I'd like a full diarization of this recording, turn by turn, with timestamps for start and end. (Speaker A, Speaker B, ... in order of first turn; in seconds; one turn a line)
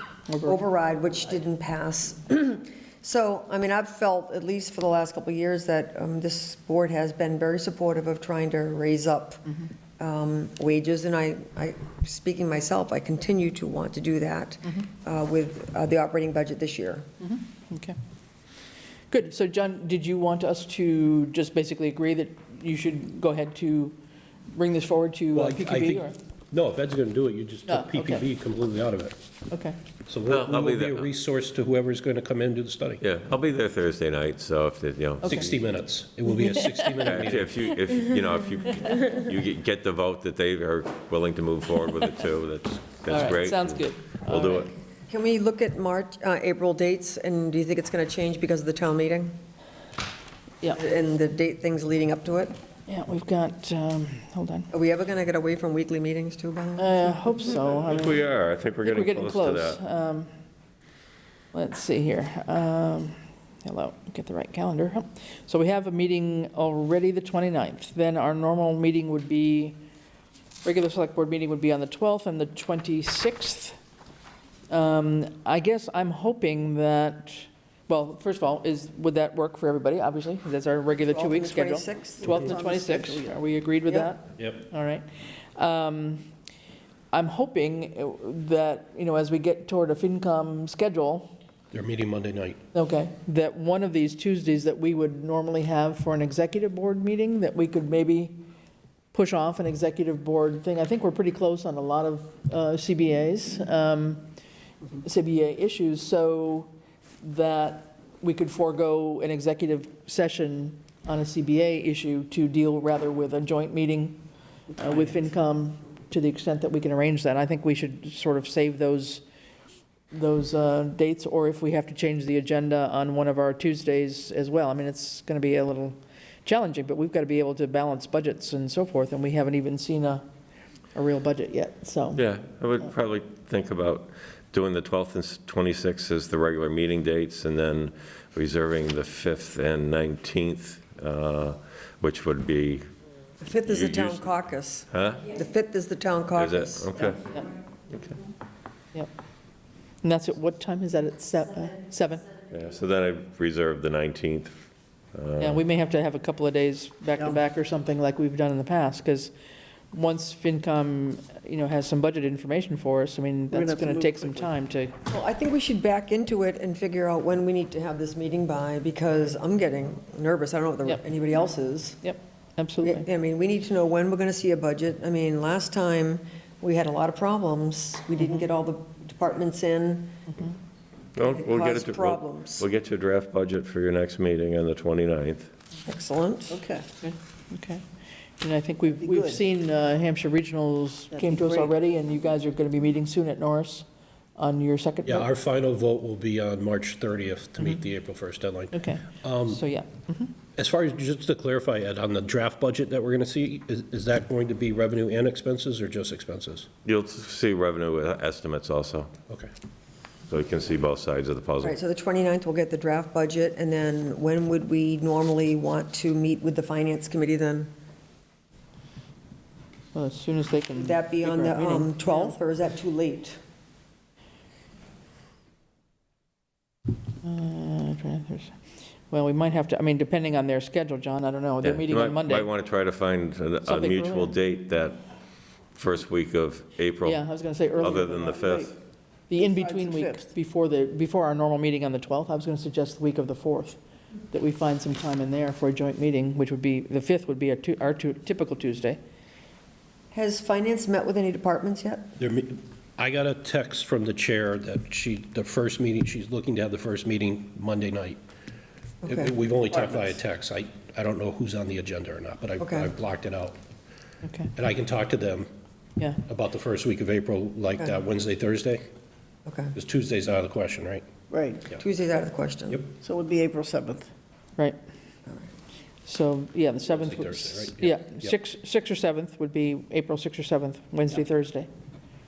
Speaker A: 0.3-0.7
Speaker B: 0.4-9.5
Speaker B: 10.0-17.1
Speaker A: 17.2-17.9
Speaker A: 19.1-24.0
Speaker A: 24.5-26.2
Speaker C: 25.3-29.1
Speaker A: 27.7-28.3
Speaker A: 29.5-29.8
Speaker C: 30.1-33.0
Speaker D: 30.3-31.1
Speaker D: 33.0-35.5
Speaker A: 35.2-35.5
Speaker C: 35.2-37.6
Speaker A: 36.3-37.1
Speaker D: 37.0-44.7
Speaker A: 38.7-39.1
Speaker A: 43.1-44.7
Speaker B: 45.1-49.4
Speaker B: 50.7-52.5
Speaker A: 52.9-54.7
Speaker B: 54.7-57.0
Speaker A: 56.8-58.2
Speaker D: 57.9-59.8
Speaker A: 58.8-60.3
Speaker A: 61.5-69.8
Speaker A: 70.6-73.8
Speaker A: 74.7-86.2
Speaker B: 80.9-82.5
Speaker E: 82.3-83.4
Speaker A: 87.1-91.3
Speaker C: 91.7-92.6
Speaker A: 92.7-98.4
Speaker A: 99.1-104.2
Speaker A: 105.0-106.7
Speaker A: 107.2-114.2
Speaker A: 114.8-119.2
Speaker A: 120.1-130.2
Speaker A: 130.9-132.2
Speaker D: 132.2-142.9
Speaker B: 143.4-146.9
Speaker D: 143.7-144.3
Speaker D: 144.9-145.2
Speaker D: 146.3-147.3
Speaker D: 147.9-148.2
Speaker A: 150.0-152.3
Speaker D: 152.5-155.6
Speaker A: 155.4-159.3
Speaker A: 159.9-164.9
Speaker E: 163.5-164.5
Speaker B: 165.1-172.0
Speaker A: 172.0-173.1
Speaker B: 172.8-180.1
Speaker D: 181.2-185.5
Speaker B: 181.2-182.7
Speaker B: 185.8-186.6
Speaker E: 186.5-186.9
Speaker A: 187.0-187.8
Speaker A: 188.4-193.8
Speaker E: 189.0-189.4
Speaker E: 191.1-191.7
Speaker A: 194.4-195.3
Speaker C: 195.0-199.6
Speaker A: 198.7-200.3
Speaker C: 200.6-206.7
Speaker D: 206.8-209.1
Speaker D: 210.3-211.8
Speaker B: 211.6-217.7
Speaker A: 219.9-222.3
Speaker B: 220.7-223.4
Speaker A: 227.2-232.5
Speaker D: 231.6-235.0
Speaker A: 233.6-234.3
Speaker D: 235.7-237.2
Speaker A: 237.0-238.4
Speaker D: 237.8-238.7
Speaker E: 238.3-238.7
Speaker A: 239.3-243.8
Speaker E: 239.3-240.3
Speaker A: 244.3-249.0
Speaker B: 250.1-252.1
Speaker C: 252.2-258.2
Speaker B: 259.0-259.3
Speaker C: 259.0-263.6
Speaker B: 262.6-262.9
Speaker A: 264.2-264.5
Speaker C: 264.5-265.5
Speaker C: 266.2-268.8
Speaker B: 269.4-269.7
Speaker C: 269.7-271.1
Speaker E: 271.3-271.7
Speaker B: 271.7-272.9
Speaker E: 273.0-274.1
Speaker A: 276.1-281.7
Speaker C: 276.8-278.3